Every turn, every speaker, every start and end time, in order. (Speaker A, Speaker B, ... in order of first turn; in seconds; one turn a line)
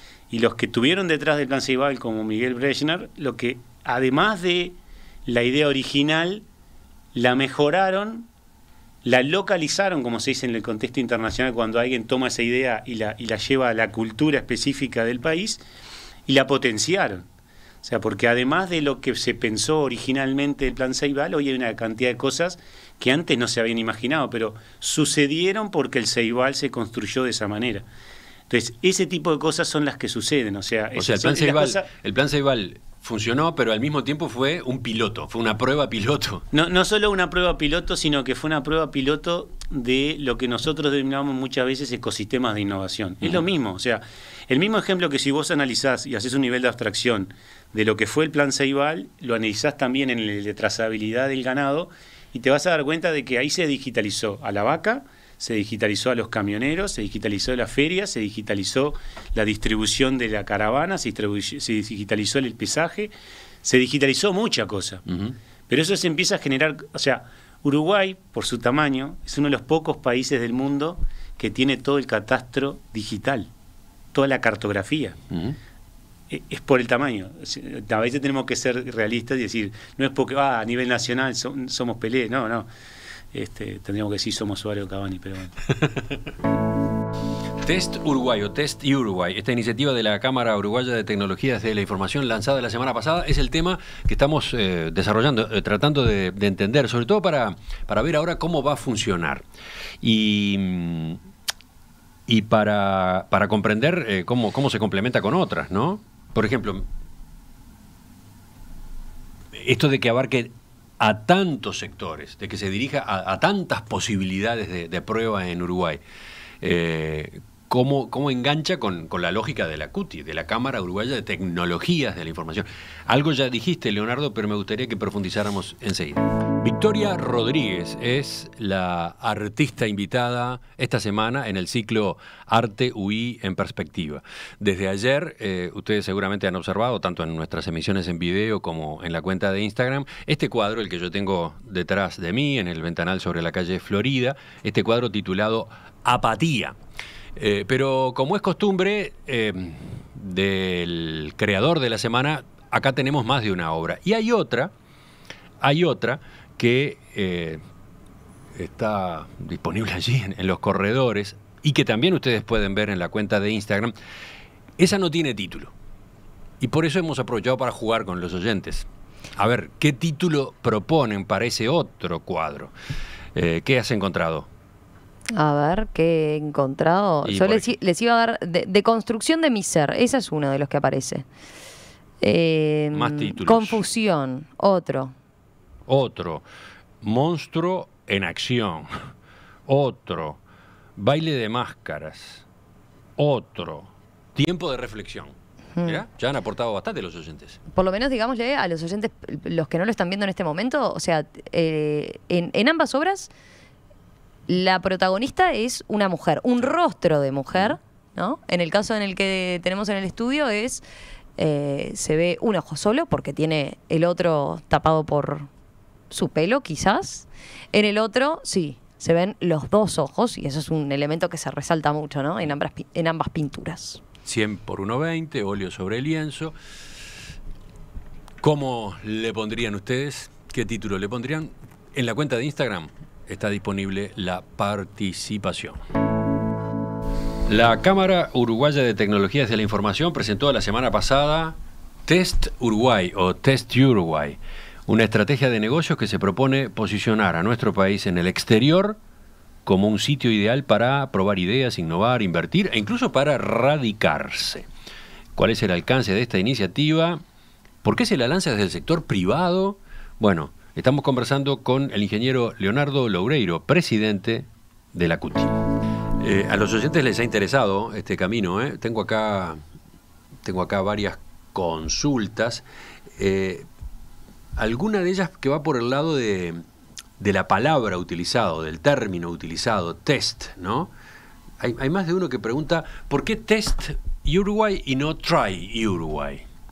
Speaker A: 0.3-6.5
Speaker A: 7.1-8.3
Speaker A: 9.0-15.6
Speaker A: 16.3-17.2
Speaker A: 17.8-27.9
Speaker A: 28.5-31.9
Speaker B: 30.9-36.4
Speaker A: 36.5-63.1
Speaker A: 63.6-65.0
Speaker A: 65.7-73.5
Speaker A: 74.1-75.2
Speaker B: 75.3-75.6
Speaker A: 76.3-82.7
Speaker A: 83.3-85.6
Speaker B: 87.6-99.5
Speaker B: 100.0-101.2
Speaker B: 102.3-106.9
Speaker B: 109.5-116.0
Speaker B: 116.6-146.8
Speaker B: 147.4-154.7
Speaker B: 155.6-157.6
Speaker B: 158.6-163.9
Speaker B: 164.8-165.7
Speaker B: 166.6-172.7
Speaker B: 173.3-174.5
Speaker C: 175.3-181.3
Speaker B: 177.2-177.7
Speaker C: 182.2-185.1
Speaker B: 182.9-183.8
Speaker B: 185.9-186.4
Speaker B: 187.0-189.1
Speaker B: 189.7-190.4
Speaker B: 191.0-192.4
Speaker B: 193.2-197.6
Speaker C: 197.7-203.3
Speaker C: 204.5-210.8
Speaker C: 211.4-215.5
Speaker C: 216.1-224.0
Speaker B: 224.2-226.5
Speaker B: 228.4-235.8
Speaker B: 237.5-241.6
Speaker B: 242.1-249.0
Speaker B: 249.7-254.7
Speaker B: 255.4-257.2
Speaker B: 257.8-265.6
Speaker B: 266.2-269.6
Speaker B: 270.4-272.6
Speaker B: 273.2-273.6
Speaker B: 274.6-276.6
Speaker B: 277.2-280.9
Speaker B: 281.6-286.4